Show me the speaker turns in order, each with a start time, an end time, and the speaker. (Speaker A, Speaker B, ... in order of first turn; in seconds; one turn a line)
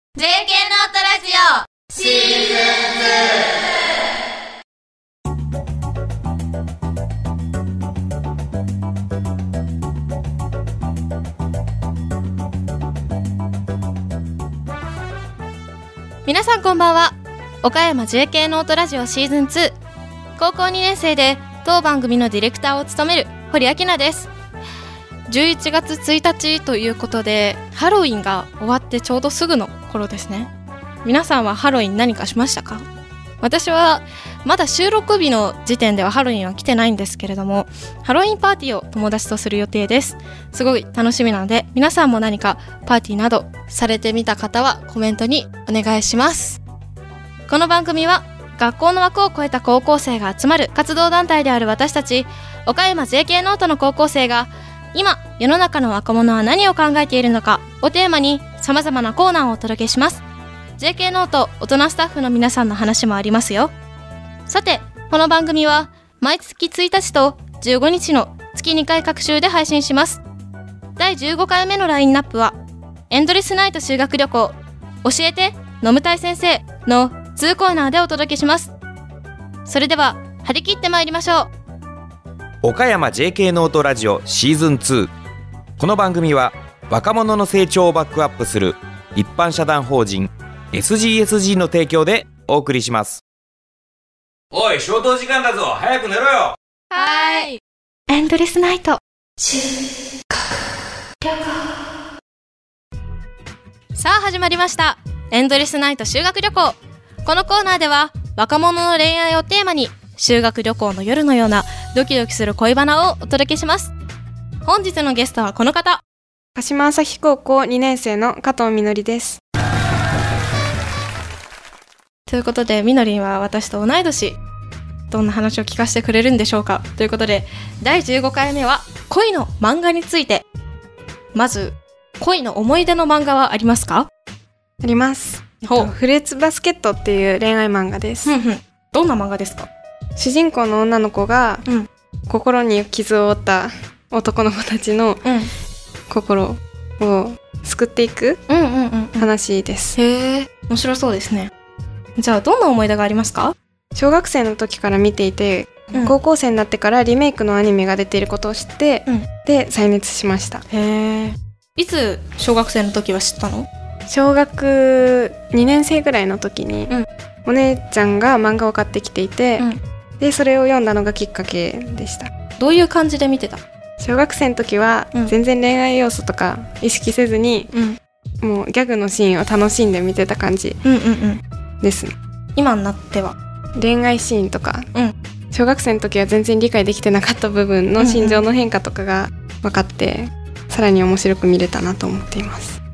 Speaker A: 0.1-3.0
Speaker B: 16.2-19.8
Speaker B: 20.4-24.3
Speaker B: 25.3-30.5
Speaker B: 31.0-32.9
Speaker B: 33.4-46.6
Speaker B: 47.5-60.2
Speaker B: 60.8-63.7
Speaker B: 64.5-70.2
Speaker B: 71.0-72.6
Speaker B: 73.1-78.7
Speaker B: 79.7-81.5
Speaker C: 82.6-85.1
Speaker C: 85.8-93.2
Speaker C: 94.5-96.5
Speaker B: 96.9-97.6
Speaker B: 98.1-99.7
Speaker B: 101.2-101.6
Speaker B: 103.9-113.9
Speaker B: 114.6-116.0
Speaker D: 116.5-119.4
Speaker B: 122.3-124.4
Speaker B: 125.1-130.4
Speaker B: 131.3-134.1
Speaker D: 134.8-138.3
Speaker B: 135.6-135.9
Speaker B: 138.2-139.7
Speaker D: 140.2-141.6
Speaker D: 142.3-145.2
Speaker B: 145.2-145.5
Speaker D: 146.1-148.4
Speaker B: 148.5-149.3
Speaker D: 149.2-149.9
Speaker B: 149.9-151.5
Speaker B: 152.2-153.5
Speaker D: 153.9-160.6
Speaker B: 160.7-163.7
Speaker D: 164.1-166.9
Speaker D: 167.4-169.7
Speaker D: 170.2-172.3
Speaker B: 172.6-173.6
Speaker D: 174.0-177.7
Speaker B: 177.7-178.0
Speaker D: 178.4-180.8
Speaker B: 180.8-181.4
Speaker D: 181.8-182.1
Speaker B: 182.6-183.3
Speaker D: 183.8-184.9
Speaker D: 185.5-192.8
Speaker B: 188.0-188.4